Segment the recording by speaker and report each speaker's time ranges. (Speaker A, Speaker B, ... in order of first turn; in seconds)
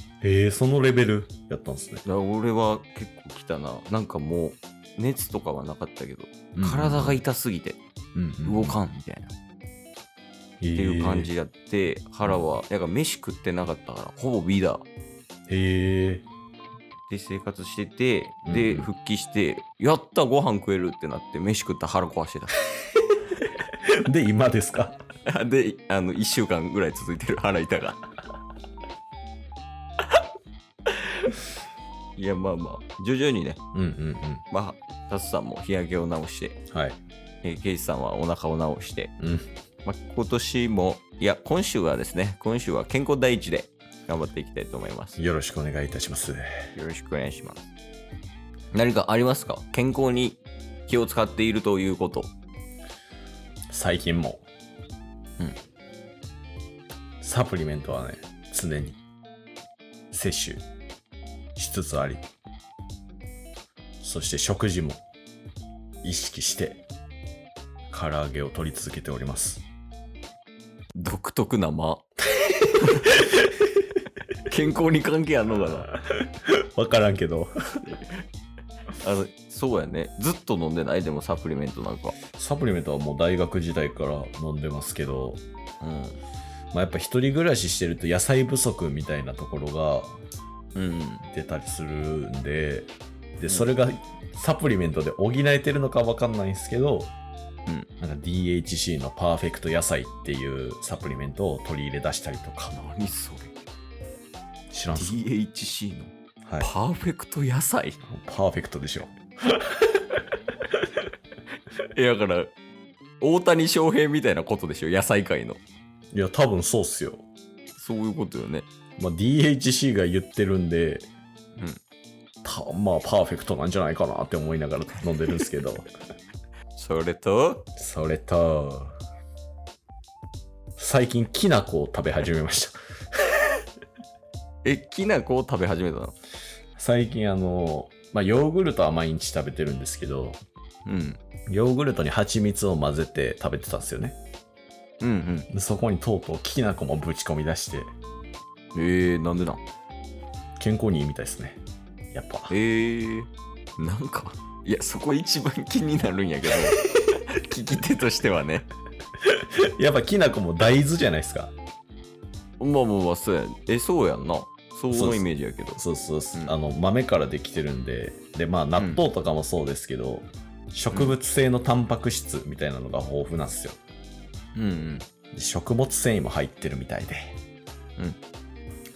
Speaker A: 0.2-2.0, 6.5-7.2, 8.2-8.8, 10.6-11.3, 15.5-16.3, 18.4-18.9, 24.1-25.0, 33.7-34.4, 36.7-37.0, 39.2-39.5, 45.2-46.5, 53.7-54.5, 57.2-59.0, 60.1-60.6, 61.6-62.2, 64.0-65.0, 66.0-66.8, 67.9-69.7, 72.4-72.9, 76.5-77.5, 82.3-85.4, 86.7-90.2, 91.3-97.1, 98.0-102.8, 104.7-105.3, 108.0-110.0, 116.1-117.2, 119.0-121.1, 122.4-125.9, 127.8-129.0, 130.8-132.8, 136.8-140.4, 141.5-144.2, 145.5-147.9, 150.6-151.6, 152.1-152.5, 159.3-161.5, 164.9-165.2, 165.8-173.8, 175.3-177.4
Speaker B: 2.0-7.8, 8.4-9.3, 10.7-14.8, 17.1-22.6, 25.3-28.0, 31.1-31.4, 32.2-33.6, 34.5-36.6, 37.4-39.1, 39.9-45.2, 46.8-47.7, 48.7-52.3, 71.0-72.1, 72.8-73.5, 74.5-75.9, 79.0-82.2, 85.8-86.2, 90.8-91.3, 102.7-103.5, 105.0-108.0, 111.9-112.5, 113.2-115.6, 117.8-118.7, 126.8-127.7, 134.6-136.2, 140.9-141.2, 145.0-145.5, 148.7-149.6, 152.5-158.7, 162.6-165.8, 168.8-169.0, 170.9-171.2, 174.6-175.1